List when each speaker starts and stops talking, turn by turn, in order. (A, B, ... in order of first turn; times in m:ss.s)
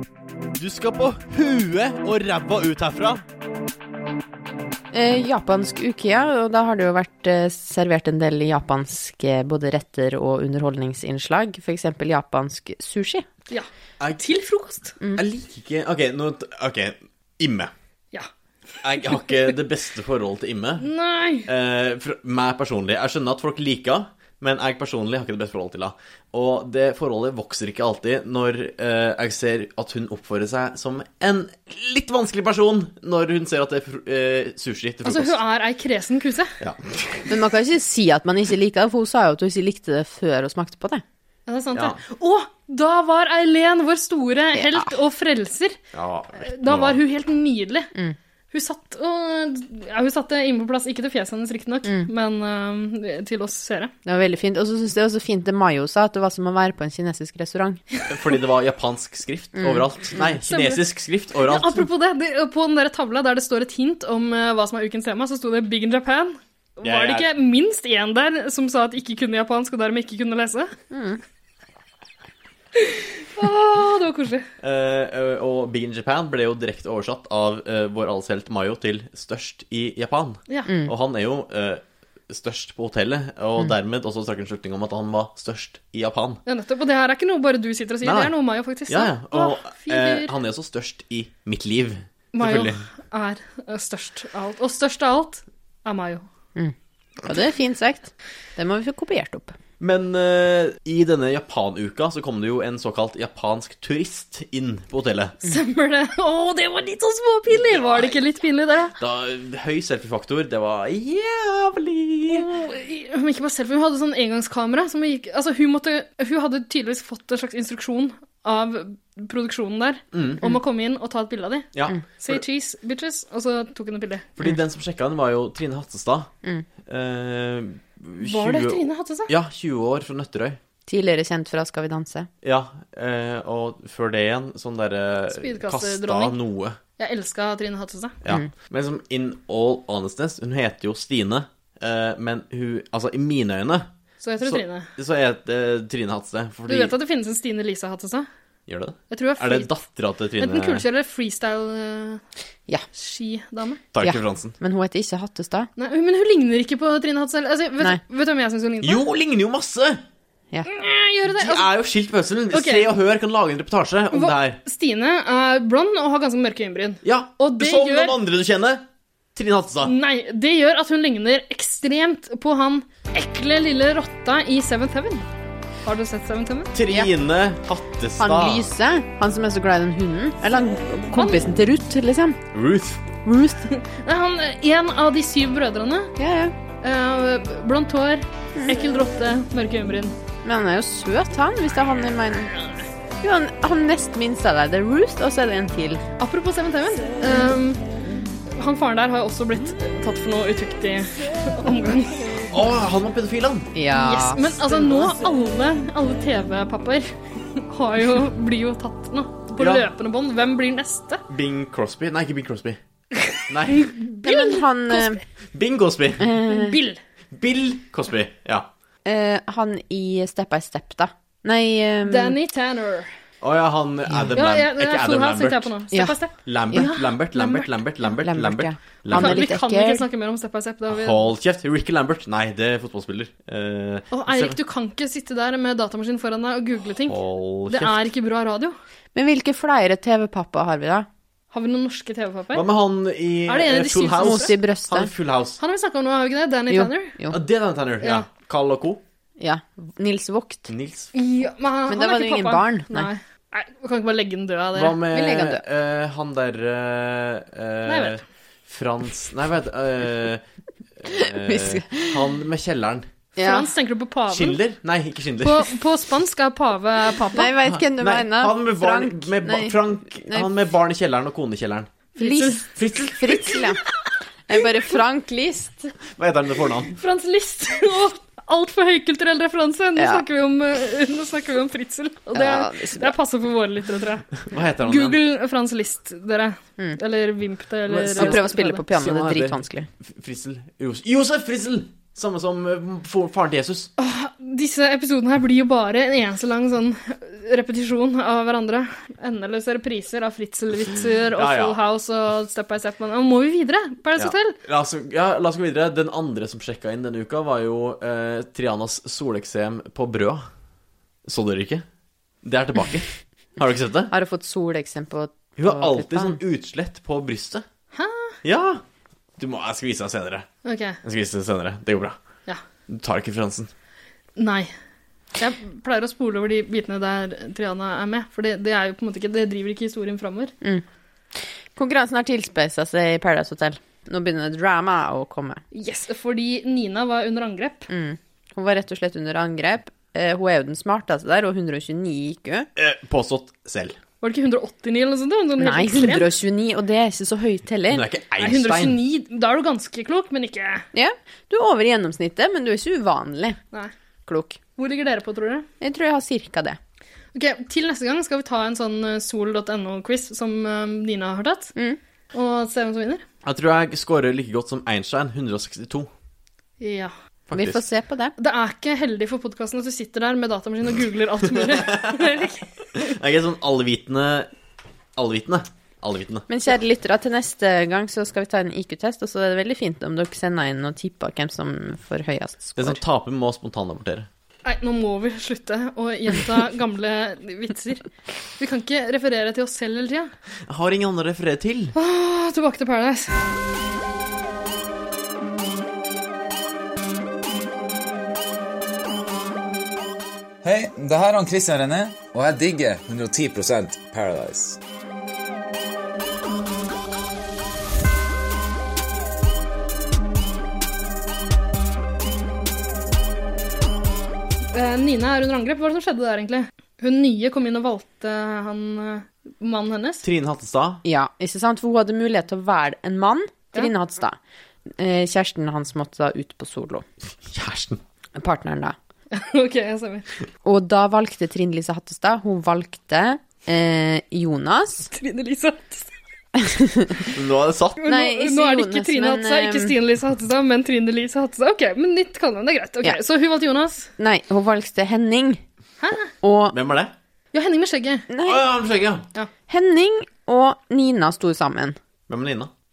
0:00.6-0:03.2 A
0:04.9-0:13.3 B
0:14.0-0:14.3 A
0:14.2-0:15.0 C
0:15.1-0:17.7 A
0:18.8-0:20.9 A
0:20.8-0:21.5 C
0:21.4-0:35.4 A
0:35.0-0:36.5 C
0:36.6-0:37.4 A
0:37.3-0:41.0 B
0:41.5-0:45.8 C
0:41.7-0:42.0 A
0:44.5-0:44.9 B
0:45.9-0:47.0 A
0:46.4-0:47.9 C
0:48.5-0:53.9 C
0:54.0-0:57.8 B
0:58.1-1:01.9 A
0:59.6-1:00.3 B
1:00.5-1:00.8 C
1:01.4-1:10.7 C
1:06.8-1:07.3 A
1:10.9-1:11.2 B
1:12.7-1:14.5 C
1:14.6-1:26.4 A
1:20.7-1:20.9 B
1:26.4-1:30.3 C
1:28.0-1:28.3 A
1:28.9-1:32.8 A
1:32.3-1:36.2 C
1:36.6-1:39.6 B
1:39.8-1:45.4 A
1:45.4-1:48.9 C
1:47.5-1:48.2 A
1:49.0-1:52.5 A
1:52.3-2:04.4 C
2:00.1-2:00.4 A
2:01.7-2:02.4 A
2:04.4-2:06.3 A
2:06.9-2:10.6 A
2:08.2-2:09.3 C
2:10.9-2:12.3 B
2:12.4-2:16.8 A
2:15.3-2:16.4 C
2:17.0-2:18.2 C
2:18.2-2:23.9 A
2:24.2-2:24.9 C
2:24.4-2:26.9 A
2:26.7-2:28.3 C
2:28.7-2:30.8 A
2:29.1-2:29.7 C
2:30.4-2:32.2 C
2:32.9-2:33.8 C
2:33.9-2:34.6 A
2:34.0-2:35.7 B
2:35.8-2:39.0 C
2:38.8-2:40.0 A
2:40.6-2:41.7 C
2:41.4-2:44.6 A
2:42.5-2:42.9 C
2:44.1-2:48.1 C
2:47.0-2:48.8 A
2:49.3-2:49.9 A
2:49.8-2:55.3 C
2:55.8-2:56.7 C
2:56.7-2:58.6 A
2:56.9-2:57.1 B
2:58.2-3:02.4 B
3:01.1-3:01.4 C
3:02.5-3:03.0 A
3:03.2-3:03.7 B
3:03.8-3:06.2 C
3:06.2-3:06.6 B
3:06.8-3:10.2 C
3:10.4-3:12.5 B
3:13.2-3:16.0 B
3:16.2-3:17.8 C
3:18.5-3:22.4 C
3:22.5-3:23.7 A
3:23.7-3:24.5 B
3:23.9-3:31.2 C
3:29.6-3:29.8 A
3:31.3-3:32.8 A
3:33.2-3:35.2 C
3:33.5-3:33.9 A
3:34.2-3:35.2 B
3:35.5-3:36.3 A
3:36.2-3:36.8 B
3:36.4-3:37.0 C
3:37.3-3:38.7 A
3:39.0-3:42.4 B
3:42.0-3:43.1 C
3:43.4-3:45.7 A
3:44.3-3:47.7 C
3:46.4-3:49.5 A
3:48.2-3:50.0 B
3:49.1-3:51.2 C
3:50.9-3:54.6 A
3:54.1-3:58.7 C
3:57.1-3:58.1 A
3:59.1-4:01.1 B
4:01.5-4:02.6 C
4:02.5-4:05.6 A
4:03.5-4:04.5 C
4:04.2-4:05.1 B
4:05.6-4:07.1 C
4:06.7-4:07.4 B
4:07.3-4:09.0 A
4:09.4-4:10.7 B
4:10.7-4:11.1 A
4:11.1-4:15.0 C
4:11.9-4:13.1 B
4:14.7-4:20.4 A
4:15.1-4:15.6 B
4:17.8-4:18.2 C
4:21.0-4:23.1 A
4:21.1-4:22.3 B
4:23.4-4:23.7 B
4:23.4-4:24.6 C
4:24.3-4:25.7 A
4:25.4-4:27.5 C
4:27.3-4:30.5 B
4:27.6-4:31.9 A
4:32.2-4:32.7 C
4:32.2-4:33.8 B
4:32.8-4:33.6 A
4:34.5-4:35.9 B
4:36.2-4:36.9 A
4:37.0-4:48.8 C
4:40.0-4:40.2 B
4:42.3-4:43.1 B
4:44.4-4:45.2 A
4:47.9-4:53.9 A
4:48.2-4:49.9 B
4:54.0-5:04.6 C
5:01.4-5:01.8 A
5:04.2-5:10.4 A
5:11.2-5:11.8 A
5:12.4-5:14.1 A
5:14.1-5:16.4 B
5:15.6-5:17.6 A
5:17.9-5:18.4 C
5:18.4-5:18.8 A
5:19.4-5:20.5 A
5:20.6-5:21.0 C
5:21.0-5:22.2 A
5:22.9-5:23.7 A
5:24.4-5:24.7 C
5:25.4-5:30.5 C
5:31.4-5:35.6 B
5:35.7-5:37.9 C
5:37.9-5:42.7 B
5:42.8-5:44.0 A
5:44.2-5:46.3 C
5:45.6-5:48.0 B
5:47.9-5:49.0 A
5:48.4-5:50.8 C
5:50.9-5:53.6 B
5:54.2-5:54.6 B
5:54.8-5:55.6 C
5:55.8-5:56.8 B
5:57.3-6:01.7 C
6:02.3-6:03.2 C
6:03.4-6:06.1 A
6:06.8-6:07.1 C
6:07.5-6:07.8 A
6:07.5-6:08.3 B
6:08.4-6:13.0 C
6:11.7-6:12.2 A
6:13.0-6:14.5 A
6:15.2-6:16.5 A
6:16.5-6:23.0 B
6:22.8-6:24.3 A
6:24.6-6:28.0 C
6:28.6-6:30.3 C
6:30.7-6:31.9 A
6:31.9-6:33.4 C
6:40.6-6:44.8 D
6:54.7-7:00.2 C
7:00.2-7:01.0 A
7:01.0-7:04.4 B
7:04.9-7:07.0 B
7:07.5-7:08.0 A
7:08.4-7:09.0 B
7:09.3-7:10.2 C
7:10.6-7:15.1 B
7:15.1-7:16.1 C
7:16.6-7:17.3 B
7:17.3-7:18.0 A
7:18.0-7:24.1 C
7:18.0-7:19.9 B
7:24.2-7:25.6 B
7:26.0-7:26.3 C
7:26.4-7:26.8 B
7:26.7-7:27.1 A
7:27.5-7:28.3 C
7:28.3-7:28.6 B
7:28.4-7:29.2 A
7:29.7-7:32.0 B
7:32.3-7:32.7 A